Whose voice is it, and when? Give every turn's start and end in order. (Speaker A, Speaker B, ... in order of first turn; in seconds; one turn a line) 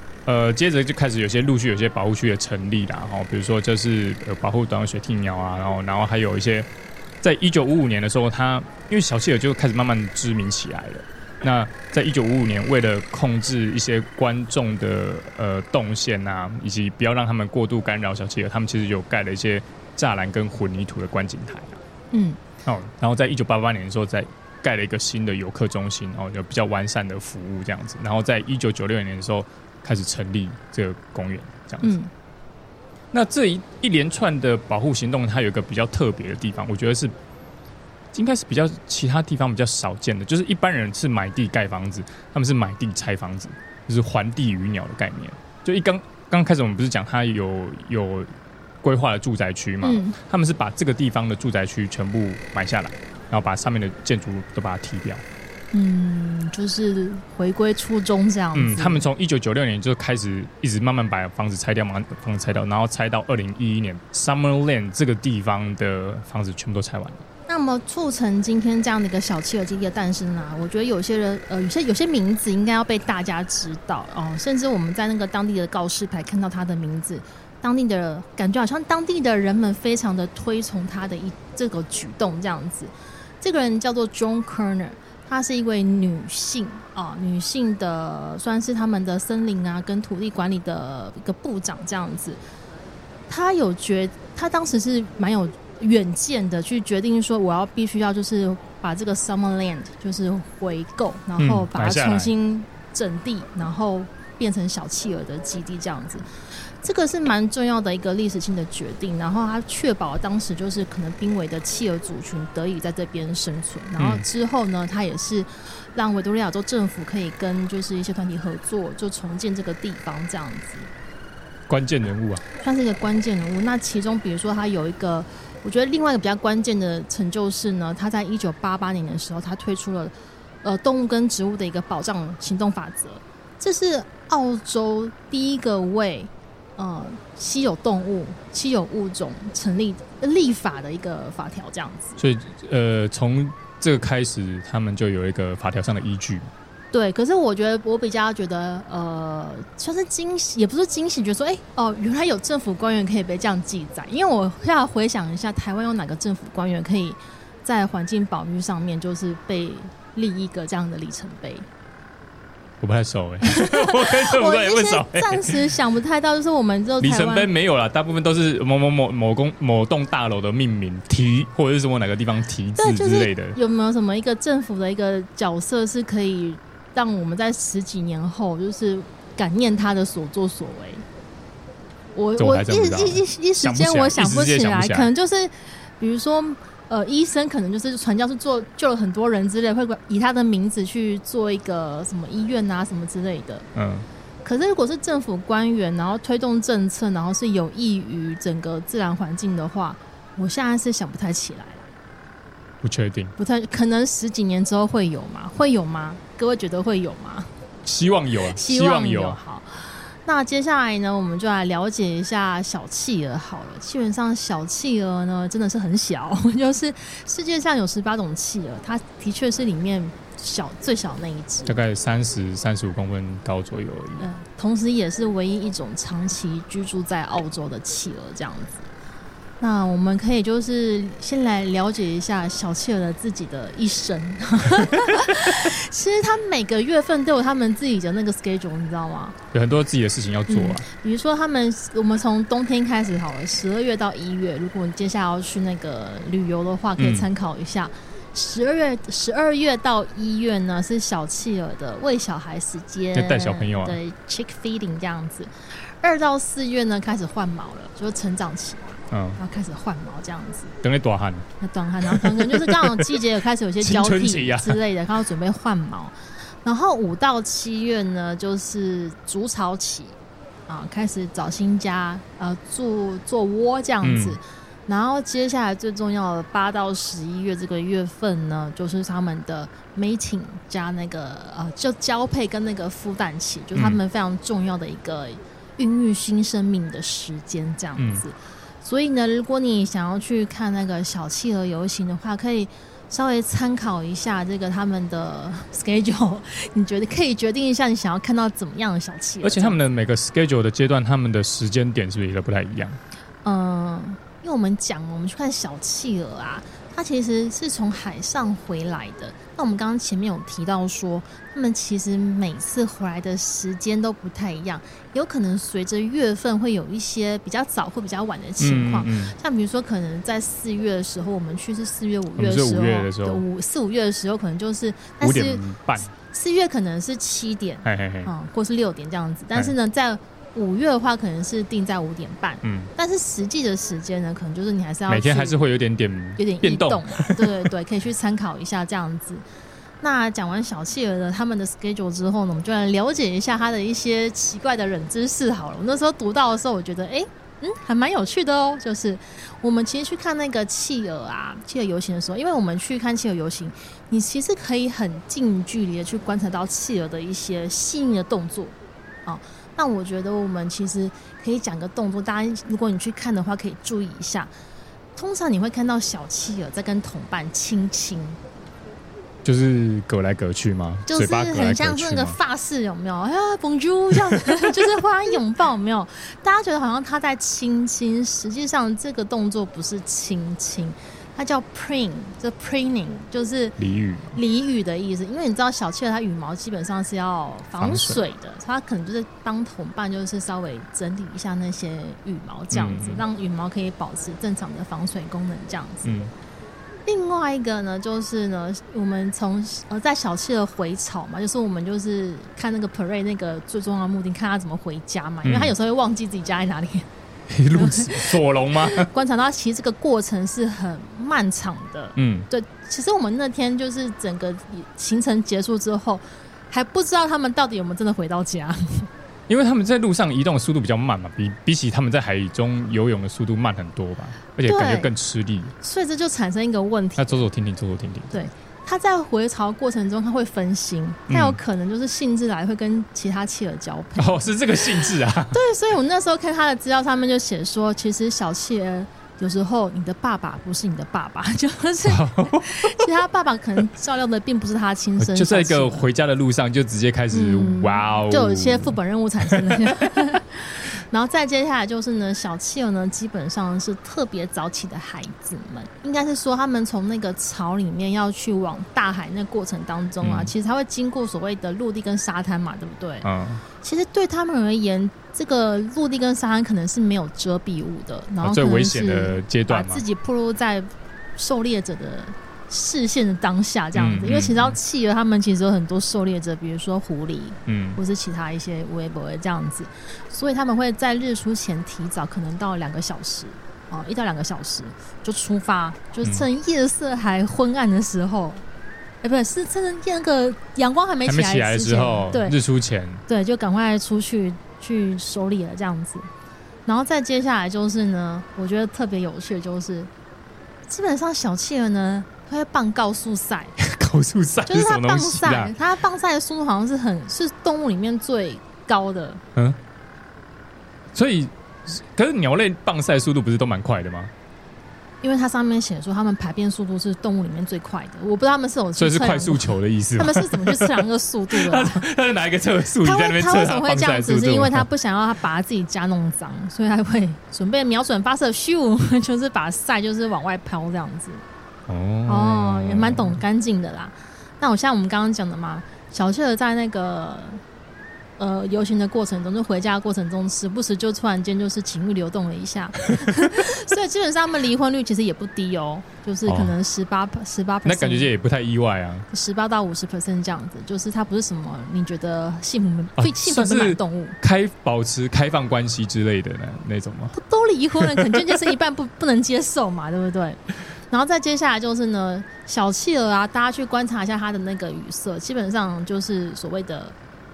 Speaker A: 0.2-6.7
Speaker A: 7.2-21.8
Speaker B: 22.1-22.4
Speaker A: 22.6-31.9
Speaker B: 31.8-32.1
Speaker A: 33.1-37.1
Speaker A: 38.1-48.3
Speaker A: 48.8-55.2
Speaker B: 49.8-50.1
Speaker B: 55.7-59.0
Speaker A: 58.5-67.2
Speaker B: 67.5-92.4
Speaker B: 93.3-120.9
Speaker A: 101.4-102.3
Speaker A: 114.0-114.2
Speaker A: 121.7-122.4
Speaker B: 122.6-142.2
Speaker A: 142.2-146.5
Speaker B: 146.9-161.7
Speaker A: 162.8-165.6
Speaker B: 163.4-167.5
Speaker A: 167.0-173.6
Speaker B: 172.8-181.1
Speaker B: 182.1-193.7
Speaker A: 182.4-185.1
Speaker A: 193.7-194.1
Speaker B: 194.4-201.9
Speaker A: 202.8-203.3
Speaker B: 203.4-207.5
Speaker A: 207.8-209.4
Speaker B: 208.5-221.8
Speaker A: 221.7-224.3
Speaker B: 224.2-228.9
Speaker B: 229.6-239.3
Speaker A: 239.5-240.8
Speaker B: 240.5-260.7
Speaker A: 247.0-247.3
Speaker A: 253.1-254.0
Speaker A: 259.1-259.4
Speaker A: 260.8-261.5
Speaker B: 261.6-270.2
Speaker A: 262.1-263.2
Speaker A: 263.8-264.8
Speaker B: 270.7-299.8
Speaker A: 274.0-274.4
Speaker A: 288.0-288.2
Speaker A: 299.4-303.0
Speaker B: 303.4-335.6
Speaker A: 318.6-319.3
Speaker A: 322.4-323.4
Speaker A: 325.2-326.1
Speaker A: 327.8-328.3
Speaker A: 332.6-332.9
Speaker A: 335.1-337.7
Speaker B: 336.4-339.4
Speaker B: 340.0-364.5
Speaker B: 365.2-368.4
Speaker A: 369.4-372.4
Speaker B: 371.1-383.8
Speaker A: 383.8-384.4
Speaker B: 384.3-396.1
Speaker A: 387.8-388.2
Speaker A: 392.7-393.2
Speaker A: 396.0-396.3
Speaker B: 397.1-407.1
Speaker A: 405.4-405.7
Speaker A: 407.5-409.1
Speaker B: 407.7-419.1
Speaker A: 412.2-412.5
Speaker A: 419.5-425.7
Speaker B: 424.6-425.1
Speaker B: 425.8-427.4
Speaker A: 427.2-428.4
Speaker B: 428.3-446.1
Speaker A: 431.3-431.6
Speaker A: 434.2-435.6
Speaker A: 442.1-443.1
Speaker A: 445.2-449.0
Speaker B: 447.3-463.3
Speaker A: 460.2-460.5
Speaker A: 463.2-463.6
Speaker B: 463.8-488.6
Speaker A: 468.4-470.0
Speaker A: 473.9-474.8
Speaker A: 477.7-478.0
Speaker B: 489.2-492.6
Speaker A: 491.3-493.2
Speaker B: 493.3-496.3
Speaker B: 496.9-500.1
Speaker B: 500.9-503.7
Speaker A: 503.8-505.8
Speaker B: 504.7-509.4
Speaker A: 511.1-514.3
Speaker B: 515.2-522.0
Speaker A: 519.0-524.9
Speaker B: 523.0-531.4
Speaker A: 531.9-533.4
Speaker B: 532.3-537.6
Speaker B: 538.4-548.3
Speaker A: 546.5-546.7
Speaker A: 547.9-549.2
Speaker B: 549.3-554.4
Speaker A: 553.2-557.3
Speaker B: 557.3-567.1
Speaker A: 558.0-558.7